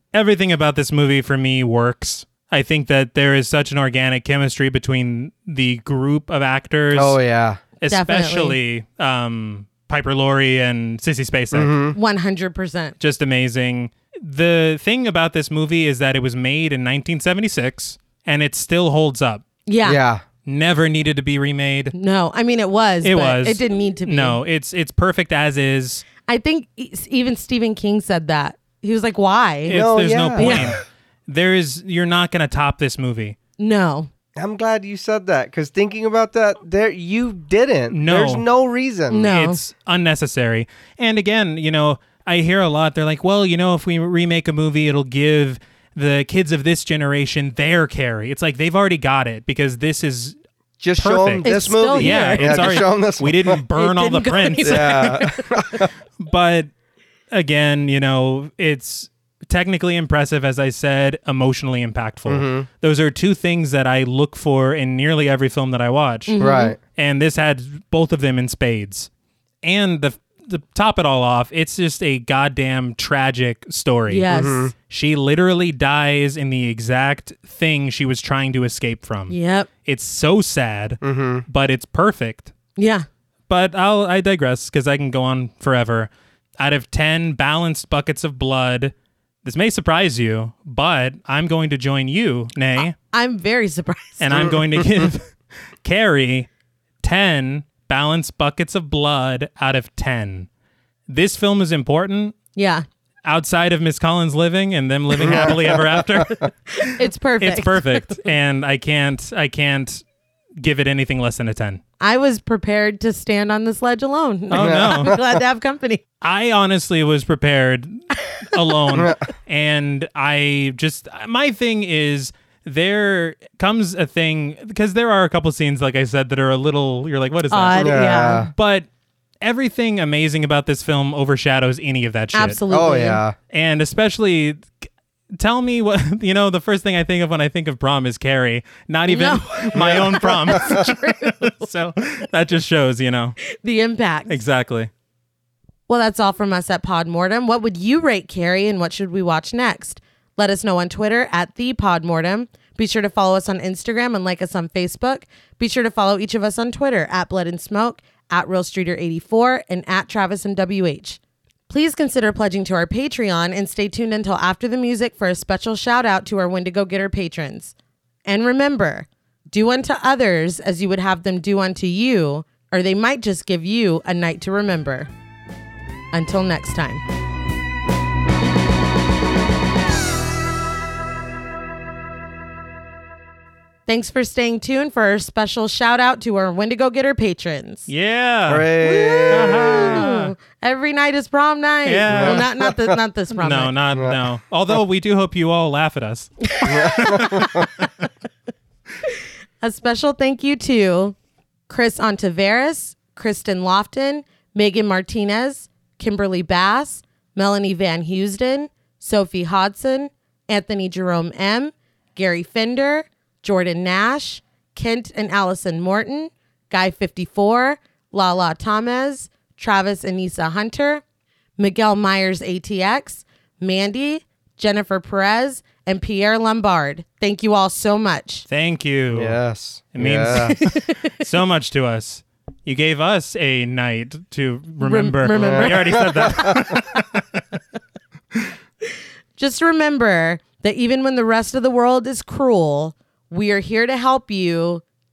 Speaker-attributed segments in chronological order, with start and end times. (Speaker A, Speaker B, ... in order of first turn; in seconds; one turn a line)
Speaker A: 0.1-7.2
Speaker B: 6.9-7.6
Speaker A: 7.8-11.7
Speaker C: 7.9-8.6
Speaker B: 11.5-12.0
Speaker C: 11.9-12.9
Speaker A: 13.0-19.4
Speaker C: 19.7-20.0
Speaker B: 19.8-20.2
Speaker A: 20.4-21.9
Speaker C: 21.9-24.4
Speaker A: 23.0-26.1
Speaker C: 26.3-29.8
Speaker A: 29.6-33.4
Speaker B: 29.7-30.7
Speaker C: 30.4-30.8
Speaker C: 33.6-34.1
Speaker B: 34.4-39.3
Speaker A: 37.9-38.4
Speaker C: 39.1-39.6
Speaker A: 39.3-50.4
Speaker B: 50.8-53.6
Speaker A: 51.0-55.3
Speaker C: 51.4-52.9
Speaker C: 53.7-55.9
Speaker B: 54.6-55.9
Speaker A: 56.2-56.7
Speaker A: 57.3-66.4
Speaker B: 62.3-62.6
Speaker C: 66.3-66.8
Speaker B: 66.4-66.8
Speaker A: 66.9-69.1
Speaker A: 69.6-74.3
Speaker C: 74.1-74.7
Speaker B: 74.3-74.7
Speaker A: 74.9-82.5
Speaker C: 79.3-79.7
Speaker B: 81.0-81.4
Speaker C: 82.8-83.1
Speaker A: 83.5-88.9
Speaker A: 89.4-92.9
Speaker C: 92.8-94.4
Speaker A: 94.2-96.5
Speaker B: 94.3-95.1
Speaker A: 97.0-100.5
Speaker A: 101.1-102.4
Speaker C: 102.5-102.9
Speaker A: 103.2-110.0
Speaker B: 105.2-106.3
Speaker C: 106.3-108.2
Speaker A: 110.6-111.8
Speaker C: 112.0-116.0
Speaker A: 114.5-115.2
Speaker B: 114.5-115.4
Speaker A: 116.2-128.9
Speaker C: 118.3-118.6
Speaker B: 118.9-119.2
Speaker C: 127.5-128.5
Speaker B: 127.7-128.5
Speaker A: 129.4-132.6
Speaker C: 132.3-133.2
Speaker B: 132.7-133.4
Speaker A: 133.5-143.4
Speaker C: 139.1-141.7
Speaker B: 139.7-140.7
Speaker C: 143.5-144.4
Speaker A: 144.3-144.9
Speaker C: 145.9-167.7
Speaker C: 168.3-175.1
Speaker C: 176.1-177.0
Speaker C: 183.9-187.9
Speaker A: 187.9-188.7
Speaker B: 188.5-190.0
Speaker C: 188.8-193.7
Speaker A: 189.3-190.3
Speaker A: 191.9-192.4
Speaker B: 192.1-192.9
Speaker A: 193.4-197.9
Speaker B: 193.9-194.2
Speaker C: 196.5-197.6
Speaker B: 196.7-197.7
Speaker C: 199.6-201.2
Speaker C: 201.7-221.0
Speaker C: 221.6-228.4
Speaker A: 228.5-229.4
Speaker B: 229.1-230.6
Speaker A: 229.9-237.0
Speaker C: 230.3-231.1
Speaker C: 234.8-236.9
Speaker B: 235.3-236.8
Speaker C: 239.4-244.8